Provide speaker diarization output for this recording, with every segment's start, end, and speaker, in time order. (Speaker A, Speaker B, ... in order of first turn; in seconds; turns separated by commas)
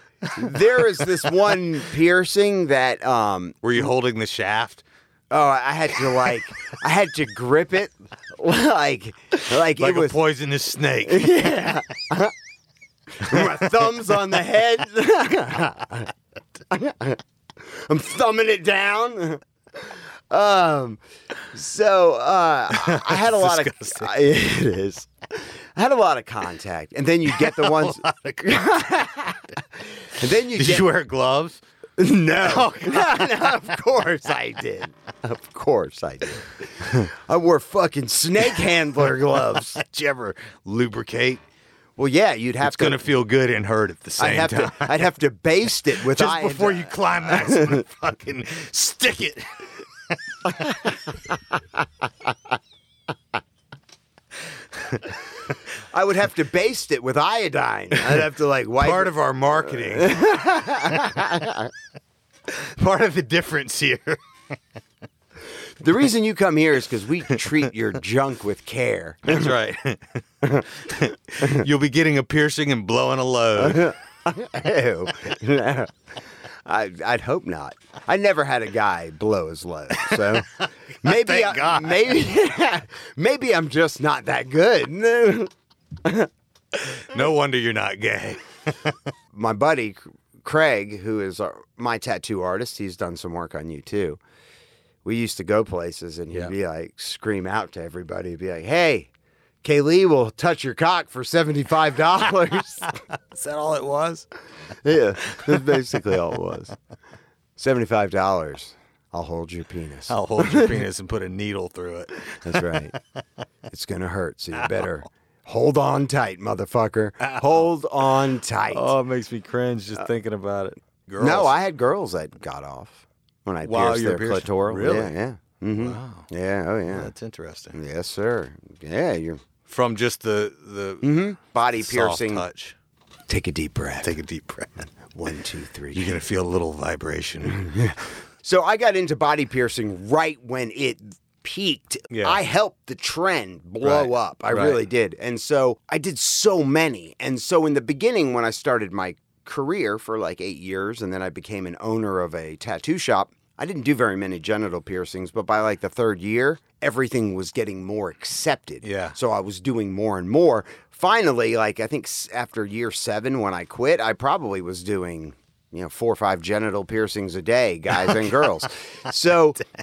Speaker A: 0.3-3.6, Speaker B: 3.6-4.8, Speaker A: 5.3-10.2, Speaker B: 9.6-11.6, Speaker A: 11.0-12.3, Speaker A: 13.2-16.1, Speaker A: 16.7-21.0, Speaker A: 21.5-29.5, Speaker B: 22.7-24.1, Speaker B: 27.3-28.6, Speaker A: 30.1-30.9, Speaker B: 30.5-31.6, Speaker A: 32.0-39.8, Speaker B: 32.4-33.3, Speaker B: 39.7-41.4, Speaker A: 42.0-43.0, Speaker B: 42.6-45.1, Speaker A: 44.2-47.8, Speaker B: 45.9-49.7, Speaker B: 50.5-50.9, Speaker A: 55.9-59.1, Speaker B: 58.0-60.2, Speaker A: 59.7-61.7, Speaker B: 62.5-64.2, Speaker A: 65.8-69.5, Speaker B: 69.3-70.2, Speaker A: 70.4-70.7, Speaker B: 70.8-73.9, Speaker A: 71.4-71.6, Speaker A: 73.6-75.9, Speaker A: 76.6-85.5, Speaker B: 79.9-82.2, Speaker A: 86.0-86.3, Speaker B: 86.8-88.9, Speaker A: 89.3-94.2, Speaker A: 95.0-99.1, Speaker A: 99.6-102.9, Speaker B: 103.3-104.2, Speaker A: 104.8-106.7, Speaker B: 105.5-105.8, Speaker A: 107.6-110.8, Speaker B: 110.1-113.0, Speaker A: 112.4-112.9, Speaker A: 113.7-118.9, Speaker B: 114.6-114.9, Speaker B: 117.2-117.7, Speaker B: 118.7-121.5, Speaker A: 121.2-127.1, Speaker B: 123.6-125.1, Speaker B: 125.8-126.3, Speaker B: 126.9-127.8, Speaker A: 127.7-129.4, Speaker B: 129.7-131.1, Speaker A: 131.0-132.4, Speaker B: 131.8-132.7, Speaker A: 133.3-134.1, Speaker B: 134.0-134.9, Speaker A: 135.1-136.2, Speaker B: 135.9-137.7, Speaker A: 137.5-169.6, Speaker B: 142.1-142.4, Speaker B: 143.8-144.8, Speaker B: 158.8-159.2